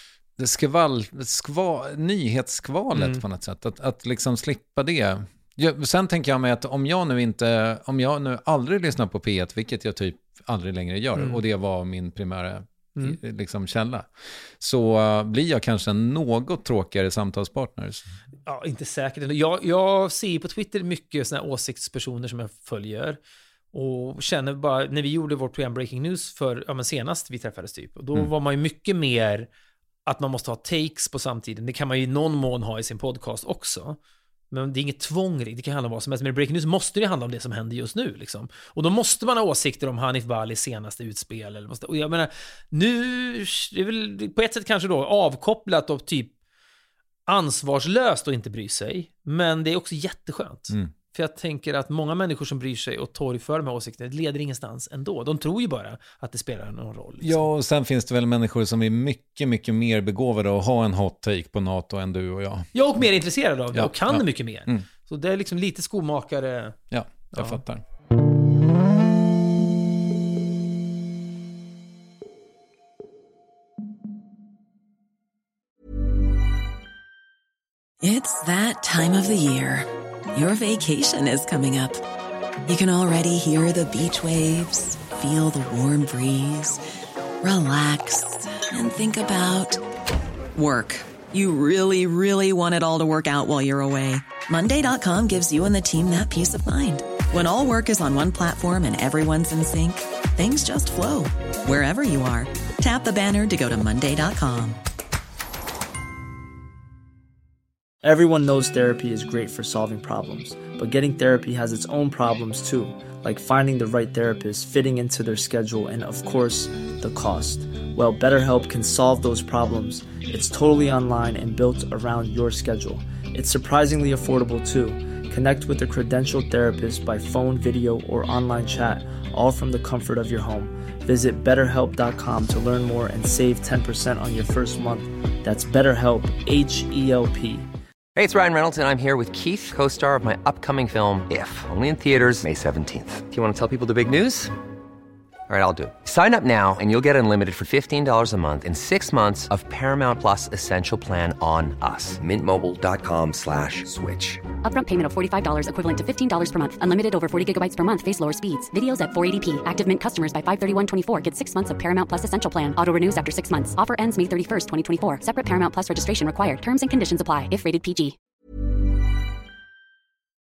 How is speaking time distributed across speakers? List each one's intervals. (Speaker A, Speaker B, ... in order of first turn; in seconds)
Speaker A: 0.4-18.1, 57.2-62.7, 63.7-64.8, 66.9-67.8
Speaker B: 2.9-3.2, 18.5-23.2, 23.7-29.5, 30.1-34.0, 34.5-46.3, 47.3-57.5, 62.7-66.8, 67.3-67.6
Speaker C: 78.0-82.0, 82.7-86.8, 87.4-89.8, 90.6-104.8
Speaker D: 108.0-137.7
Speaker E: 138.2-144.5, 145.5-154.5
Speaker F: 154.6-168.2